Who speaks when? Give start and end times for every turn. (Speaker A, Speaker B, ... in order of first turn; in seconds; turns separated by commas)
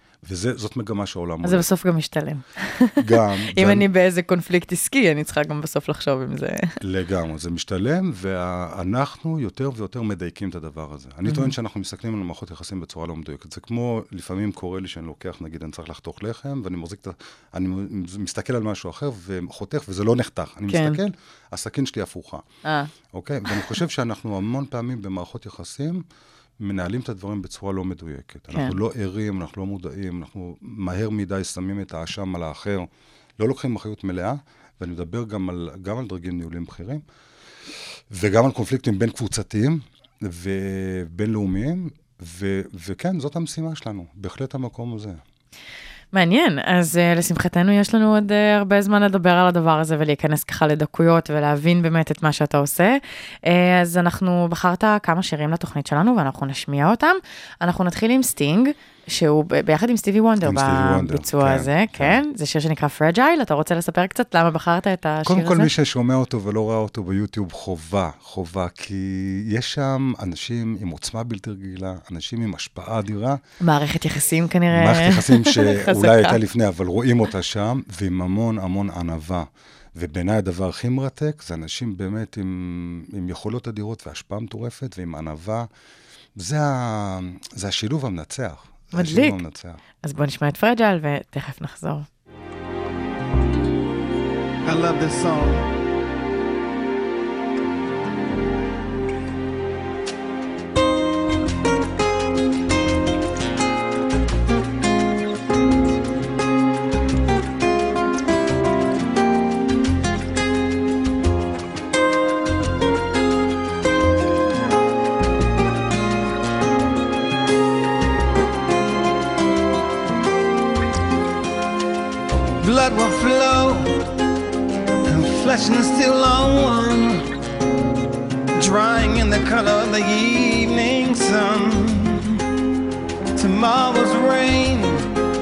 Speaker A: 0.2-1.7, Speaker B: 1.4-6.8, Speaker A: 3.0-3.9, Speaker A: 6.8-22.4, Speaker B: 11.2-11.5, Speaker B: 20.7-21.0, Speaker B: 22.6-22.9, Speaker A: 23.1-26.0, Speaker A: 26.6-37.0, Speaker A: 38.1-45.2, Speaker B: 46.1-65.7, Speaker A: 60.4-62.2, Speaker A: 65.2-73.4, Speaker B: 73.6-76.4, Speaker A: 74.7-85.7, Speaker A: 86.4-89.8, Speaker B: 88.9-89.4, Speaker B: 90.0-92.1, Speaker C: 94.6-95.7, Speaker C: 122.6-124.0, Speaker C: 125.1-127.3, Speaker C: 128.6-132.4, Speaker C: 133.4-135.1